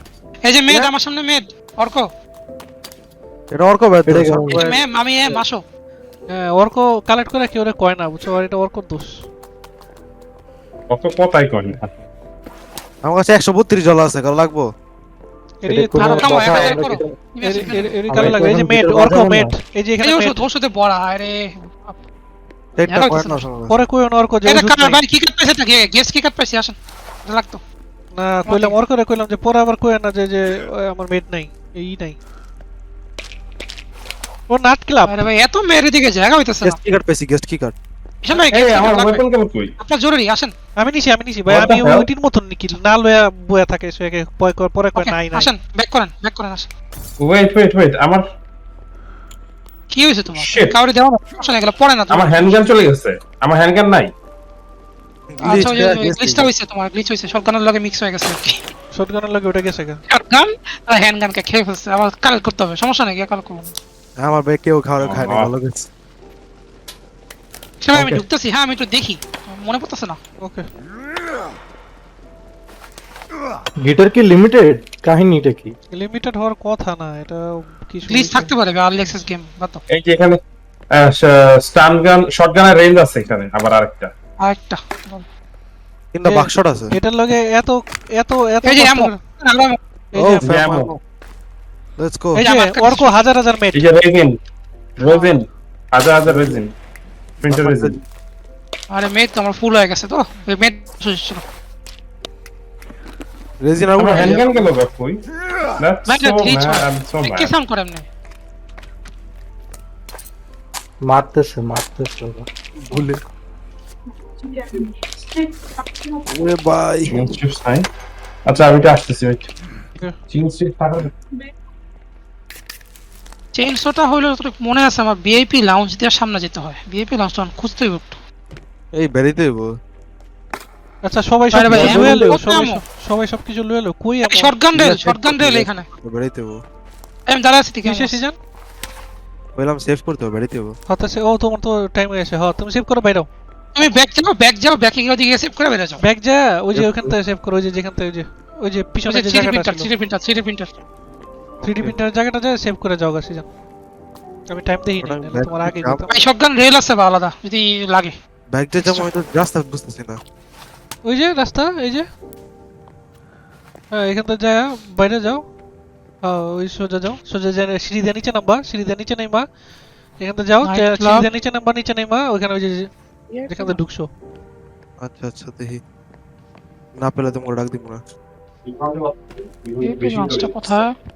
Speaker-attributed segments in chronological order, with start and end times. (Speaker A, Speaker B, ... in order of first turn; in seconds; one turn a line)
Speaker A: 0.5-2.1
Speaker B: 3.5-4.8
Speaker C: 4.1-4.7
Speaker A: 4.5-5.6
Speaker D: 6.3-9.2
Speaker E: 10.9-11.9
Speaker B: 13.0-14.7
Speaker D: 15.6-16.8
Speaker C: 15.7-17.1
Speaker A: 16.0-17.9
Speaker D: 17.4-20.4
Speaker C: 18.1-19.5
Speaker A: 20.0-22.0
Speaker B: 22.8-23.8
Speaker A: 22.9-23.4
Speaker D: 23.7-25.0
Speaker A: 24.5-27.6
Speaker D: 28.1-32.2
Speaker A: 28.5-28.8
Speaker D: 34.5-35.3
Speaker A: 35.1-36.8
Speaker B: 36.6-37.8
Speaker A: 38.2-39.2
Speaker E: 38.3-39.7
Speaker A: 39.8-40.5
Speaker D: 40.8-45.5
Speaker E: 41.5-42.1
Speaker A: 44.9-46.7
Speaker E: 47.2-48.2
Speaker A: 49.9-52.8
Speaker E: 50.4-50.8
Speaker E: 52.1-54.1
Speaker B: 55.3-56.5
Speaker A: 55.4-58.6
Speaker D: 58.9-60.0
Speaker A: 60.1-63.7
Speaker B: 64.2-65.9
Speaker E: 65.0-65.5
Speaker A: 67.8-70.2
Speaker C: 68.0-68.2
Speaker C: 73.8-75.8
Speaker D: 75.9-78.5
Speaker A: 78.1-79.8
Speaker E: 79.9-80.4
Speaker E: 80.9-84.1
Speaker A: 84.5-85.3
Speaker B: 86.1-87.0
Speaker D: 86.2-89.2
Speaker A: 88.6-89.8
Speaker D: 90.1-90.6
Speaker B: 90.2-91.0
Speaker E: 90.4-90.9
Speaker B: 92.0-92.5
Speaker D: 92.3-93.9
Speaker A: 92.4-93.2
Speaker E: 93.7-94.4
Speaker E: 95.0-96.7
Speaker A: 95.0-95.4
Speaker B: 96.2-96.6
Speaker E: 97.4-97.9
Speaker B: 97.4-98.0
Speaker A: 98.9-101.4
Speaker B: 103.6-104.6
Speaker E: 104.0-105.2
Speaker E: 105.8-107.5
Speaker A: 106.1-108.1
Speaker C: 111.0-112.5
Speaker B: 112.9-113.2
Speaker B: 116.3-117.4
Speaker E: 117.1-117.9
Speaker E: 118.5-119.5
Speaker E: 120.3-121.1
Speaker A: 123.5-128.2
Speaker B: 128.9-129.8
Speaker D: 131.0-134.6
Speaker A: 131.5-132.8
Speaker B: 131.7-132.2
Speaker C: 131.7-132.3
Speaker A: 134.2-135.9
Speaker B: 134.7-136.6
Speaker A: 137.3-138.2
Speaker D: 137.8-138.4
Speaker B: 139.6-140.8
Speaker D: 140.9-143.3
Speaker A: 143.8-146.0
Speaker D: 146.0-149.9
Speaker B: 146.8-147.1
Speaker A: 149.1-150.7
Speaker B: 151.6-152.0
Speaker D: 151.6-153.5
Speaker D: 154.5-156.2
Speaker B: 155.0-156.1
Speaker A: 156.1-158.1
Speaker B: 158.5-160.2
Speaker A: 158.8-159.1
Speaker D: 161.1-162.1
Speaker D: 163.9-165.4
Speaker D: 166.2-169.5
Speaker D: 170.2-172.9
Speaker A: 170.6-171.3
Speaker A: 173.3-173.8
Speaker D: 173.5-174.1
Speaker B: 175.0-175.8
Speaker B: 177.0-178.0
Speaker E: 178.7-180.8
Speaker A: 179.8-180.9